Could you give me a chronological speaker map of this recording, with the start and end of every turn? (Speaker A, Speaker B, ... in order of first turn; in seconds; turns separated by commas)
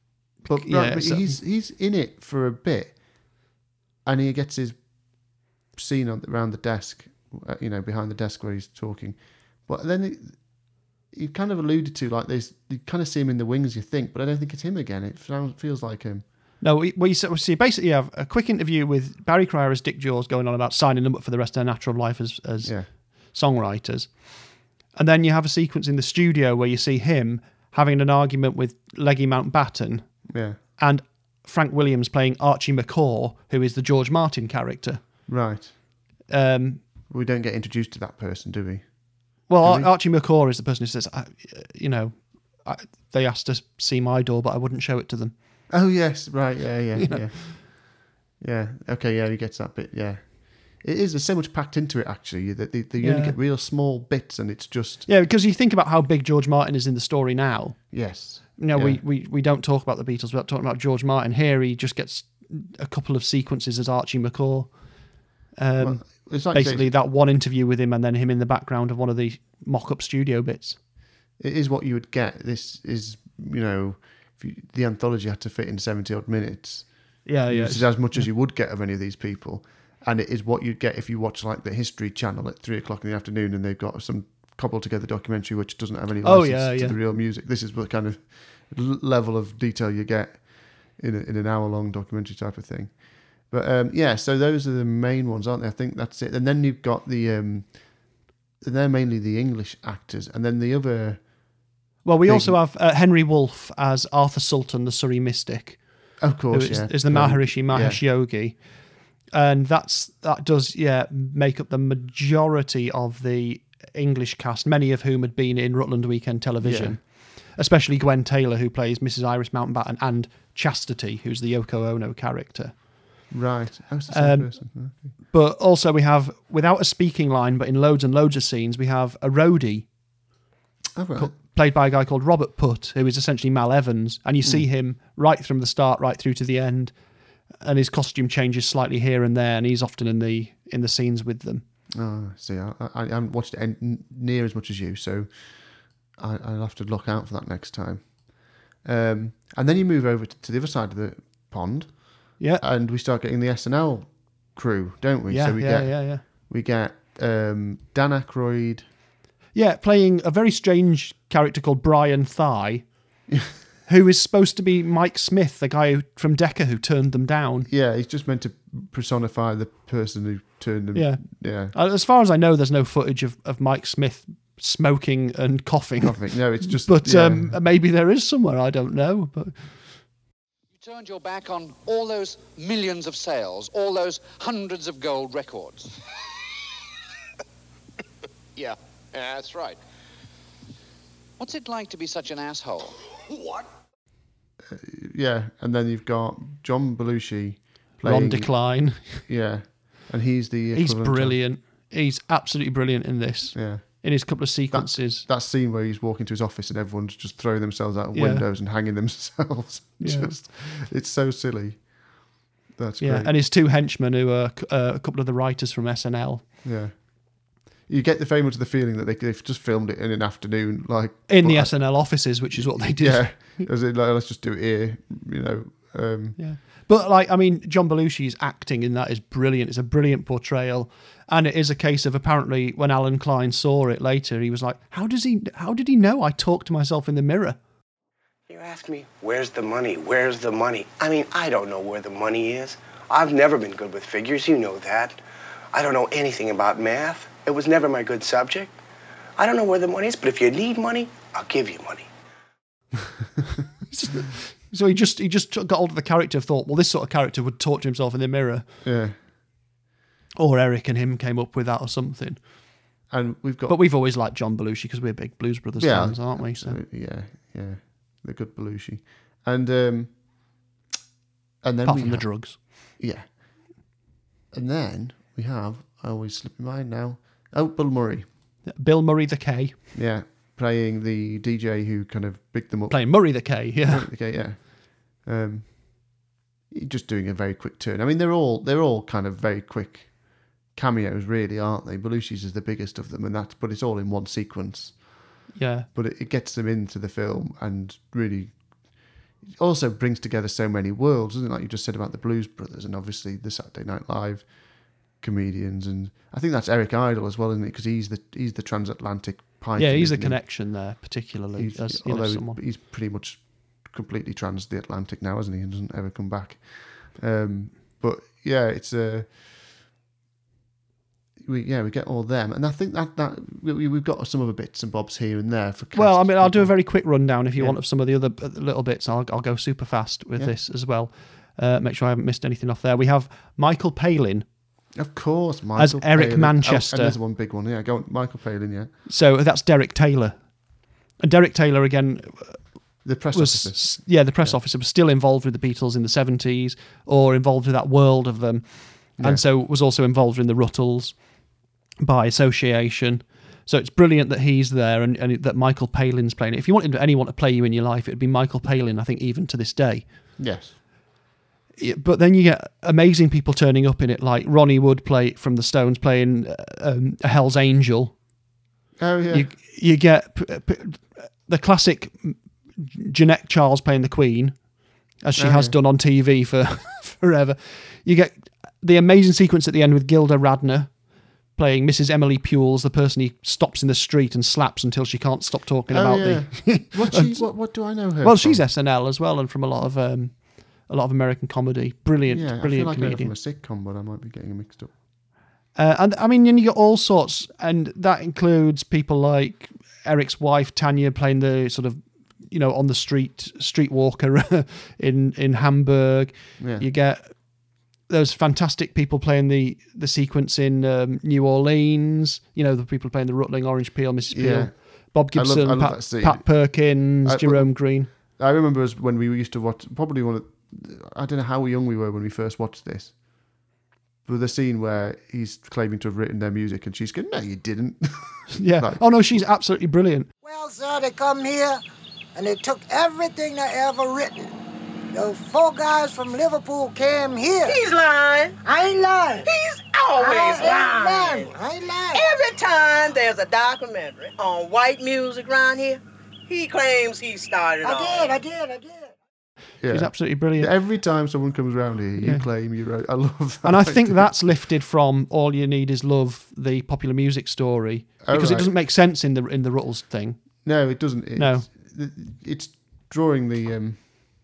Speaker A: 0.4-1.4, Speaker B: 0.5-16.3, Speaker A: 16.6-35.3, Speaker B: 22.6-22.9, Speaker B: 30.3-30.6, Speaker B: 35.3-35.8, Speaker A: 36.3-36.9, Speaker B: 37.1-39.9, Speaker A: 39.5-45.4, Speaker B: 45.7-55.1, Speaker A: 47.1-47.6, Speaker A: 53.0-53.4, Speaker A: 55.1-70.8, Speaker B: 57.9-59.0, Speaker B: 65.8-66.9, Speaker B: 71.4-102.6, Speaker A: 77.2-78.3, Speaker A: 86.2-87.0, Speaker A: 102.0-123.2, Speaker B: 106.2-108.0, Speaker B: 116.6-117.0, Speaker B: 123.3-125.2, Speaker A: 124.1-130.0, Speaker B: 131.0-131.3, Speaker A: 131.1-141.6, Speaker B: 141.9-158.9, Speaker A: 155.3-156.2, Speaker A: 159.5-163.3, Speaker A: 163.9-167.7, Speaker B: 167.7-171.8, Speaker A: 170.9-179.9, Speaker B: 176.0-177.6, Speaker C: 180.7-185.9, Speaker C: 189.4-189.7, Speaker C: 191.4-193.1, Speaker B: 194.6-201.4, Speaker A: 198.0-199.2, Speaker A: 200.7-205.3, Speaker B: 203.5-213.3, Speaker A: 208.1-208.5, Speaker A: 210.0-210.3, Speaker A: 213.0-216.5, Speaker B: 216.6-226.4, Speaker A: 221.3-223.7, Speaker A: 226.4-237.6, Speaker D: 238.5-245.2, Speaker D: 245.7-248.8, Speaker D: 249.4-252.1, Speaker A: 253.9-258.7, Speaker B: 258.8-259.2, Speaker A: 260.4-262.9, Speaker B: 263.1-263.8, Speaker A: 263.7-266.8, Speaker B: 265.8-270.7, Speaker B: 271.6-273.9, Speaker A: 271.9-272.6, Speaker B: 274.5-278.3, Speaker A: 278.7-279.9, Speaker B: 279.9-311.0, Speaker A: 282.9-284.1, Speaker A: 295.6-295.9, Speaker A: 309.8-312.6, Speaker B: 311.5-319.4, Speaker B: 321.4-327.8, Speaker A: 325.9-334.5, Speaker B: 334.9-338.9, Speaker A: 335.8-337.2, Speaker A: 339.1-360.4, Speaker B: 343.0-344.6, Speaker B: 349.2-349.4, Speaker B: 360.4-360.8, Speaker A: 361.8-368.2, Speaker B: 369.0-369.5, Speaker A: 369.3-393.4, Speaker B: 375.4-375.8, Speaker B: 385.9-388.6, Speaker B: 392.3-395.0, Speaker A: 395.7-418.1, Speaker B: 406.6-406.9, Speaker B: 414.3-423.7, Speaker B: 424.2-429.5, Speaker A: 428.6-430.3, Speaker E: 430.4-431.8, Speaker E: 432.4-434.5, Speaker E: 435.1-437.8, Speaker F: 437.6-438.6, Speaker E: 438.6-439.5, Speaker F: 439.4-441.5, Speaker E: 440.2-442.2, Speaker F: 442.1-448.4, Speaker E: 447.8-449.1, Speaker B: 449.8-454.3, Speaker A: 449.9-450.7, Speaker A: 452.2-452.5, Speaker A: 453.6-461.7, Speaker B: 458.2-458.7, Speaker B: 460.6-464.2